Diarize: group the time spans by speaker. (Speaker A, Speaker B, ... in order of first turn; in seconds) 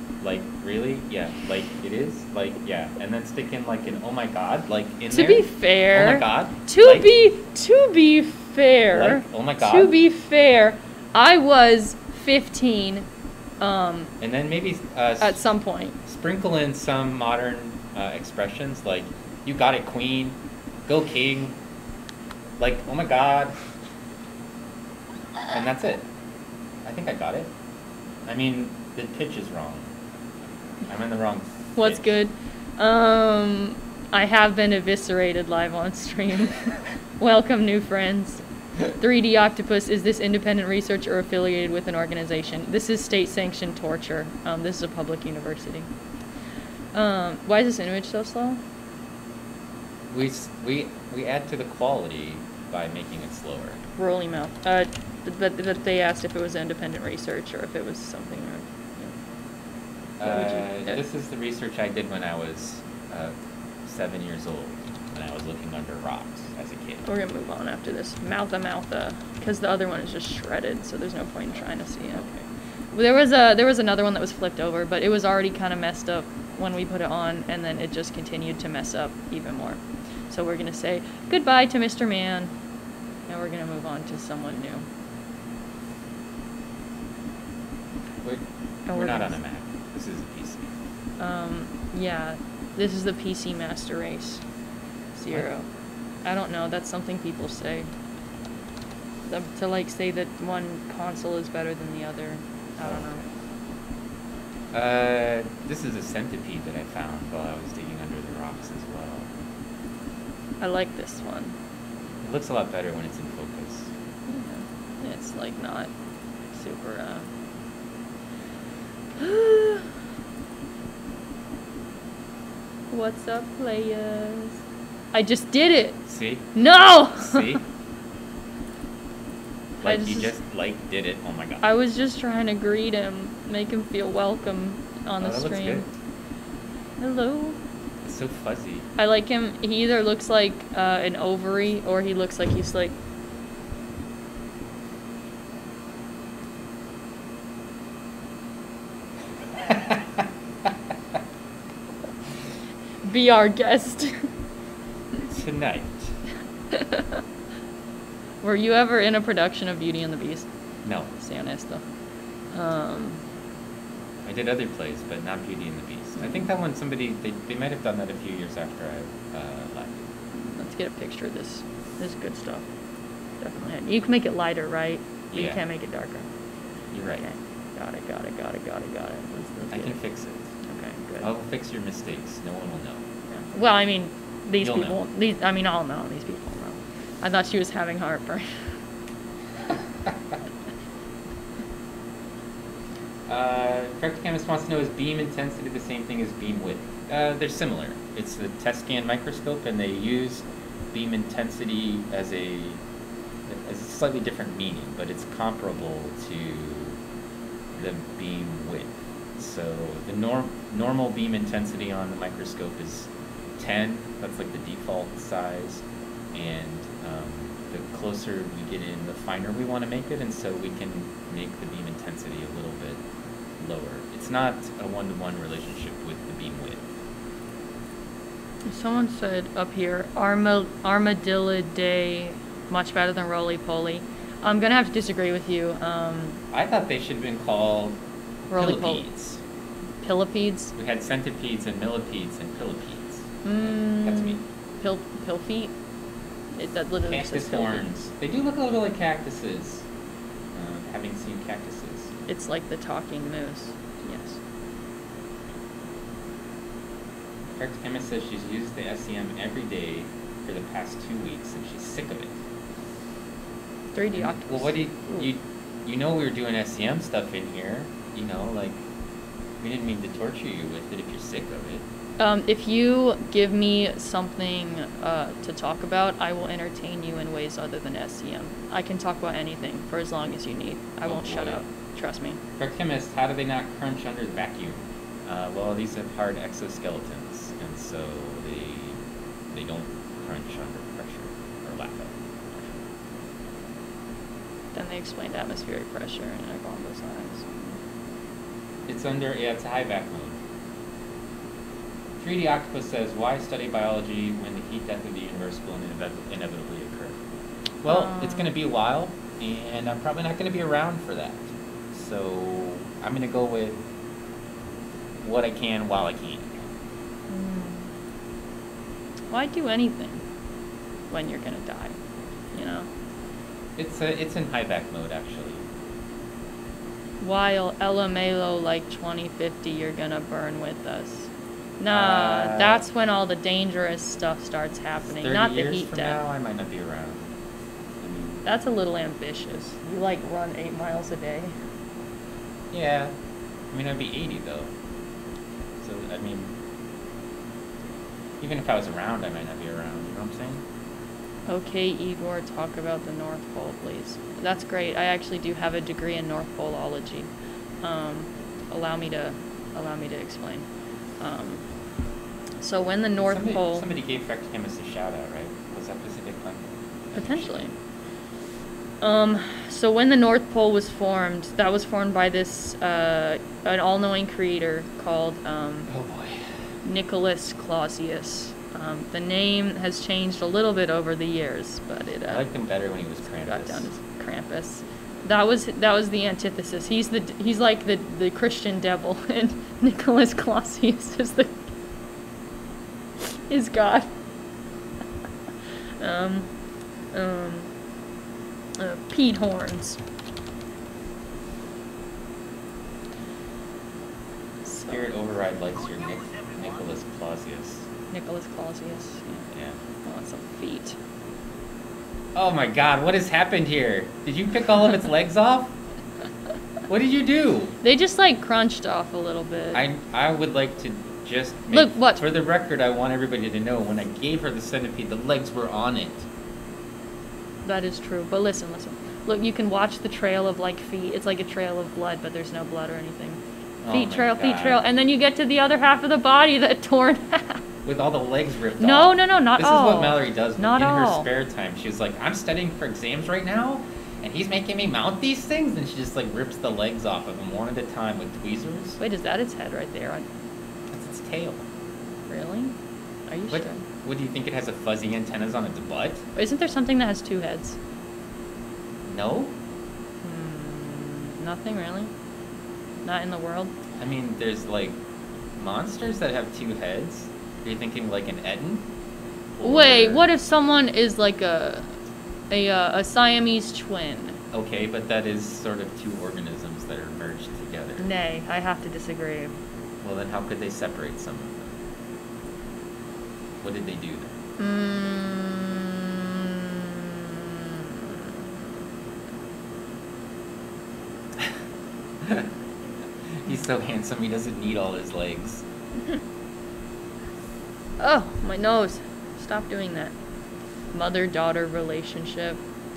Speaker A: 0.2-7.2, 8.9-9.9, 14.2-15.4, 16.1-21.6, 22.6-23.6, 25.5-26.1, 26.8-27.5, 28.3-29.9, 30.9-32.0, 50.1-53.8, 60.2-67.0, 72.2-72.5, 88.2-90.7, 102.8-103.1, 104.7-109.3, 112.2-113.9, 126.1-126.5, 127.1-127.6, 129.8-131.6, 135.2-135.9, 138.0-138.9, 149.6-150.0, 155.2-156.2, 160.8-161.1, 164.2-170.0, 175.3-175.6, 176.9-177.2, 179.7-180.5, 181.2-183.0, 184.6-185.0, 193.3-202.8, 203.5-207.0, 207.8-223.0, 223.6-226.9, 236.5-238.0, 238.6-239.4, 240.8-244.4, 247.1-249.9, 250.5-252.1, 257.6-262.4, 264.2-268.8, 269.6-271.8, 281.0-281.6, 282.6-289.0, 289.5-292.8, 298.9-300.4, 302.2-307.2, 307.8-313.8, 315.2-316.7, 323.8-325.7, 331.9-332.8, 335.1-337.3, 338.0-338.4, 342.7-343.1, 343.7-344.7, 345.8-346.5, 348.4-350.6, 363.2-367.7, 375.9-376.5, 382.3-383.9, 404.9-407.9, 409.5-409.8, 412.4-415.8, 416.9-417.8, 419.7-426.3, 433.8-434.8, 437.9-449.0, 450.9-451.7, 453.5-456.2, 459.1-459.6, 464.0-465.0, 465.6-468.9, 469.6-470.3, 474.5-478.1, 480.0-481.7, 483.6-484.4, 492.2-492.5, 493.2-495.6
Speaker B: 5.1-13.1, 13.6-14.1, 15.2-16.0, 31.8-45.9, 46.9-48.6, 54.0-59.1, 60.2-61.0, 67.0-72.2, 72.9-82.5, 83.3-84.9, 88.9-89.4, 91.2-94.4, 95.2-95.7, 96.2-97.9, 99.2-103.2, 110.6-111.5, 114.3-115.9, 116.5-117.3, 119.2-119.9, 122.9-124.6, 125.1-127.6, 129.8-130.3, 131.6-135.9, 137.0-137.6, 139.0-142.9, 153.0-154.3, 156.7-157.2, 158.4-160.5, 161.2-161.8, 162.5-163.2, 166.2-166.5, 170.3-172.7, 173.4-176.3, 177.1-180.0, 180.6-181.3, 183.3-188.6, 228.7-236.4, 238.5-239.1, 240.0-240.7, 243.4-245.7, 246.6-247.8, 252.3-254.4, 263.9-265.3, 272.2-282.4, 294.7-297.8, 307.9-308.5, 317.3-317.9, 319.3-320.2, 321.1-322.0, 322.5-322.9, 327.2-336.2, 338.4-341.5, 351.5-357.3, 357.8-360.7, 361.2-361.6, 362.6-363.9, 367.2-367.7, 369.0-375.9, 376.8-382.4, 383.3-391.6, 393.2-394.1, 396.0-396.5, 397.1-397.7, 398.8-400.0, 404.6-405.1, 408.1-409.5, 410.0-411.0, 417.8-419.8, 421.7-422.2, 427.6-437.6, 438.8-441.3, 449.0-450.2, 452.3-452.8, 453.3-453.8, 456.4-457.8, 460.2-462.1, 463.0-463.7, 469.6-471.9, 472.5-474.4, 478.0-479.5, 484.6-488.3, 498.0-500.1, 500.9-502.6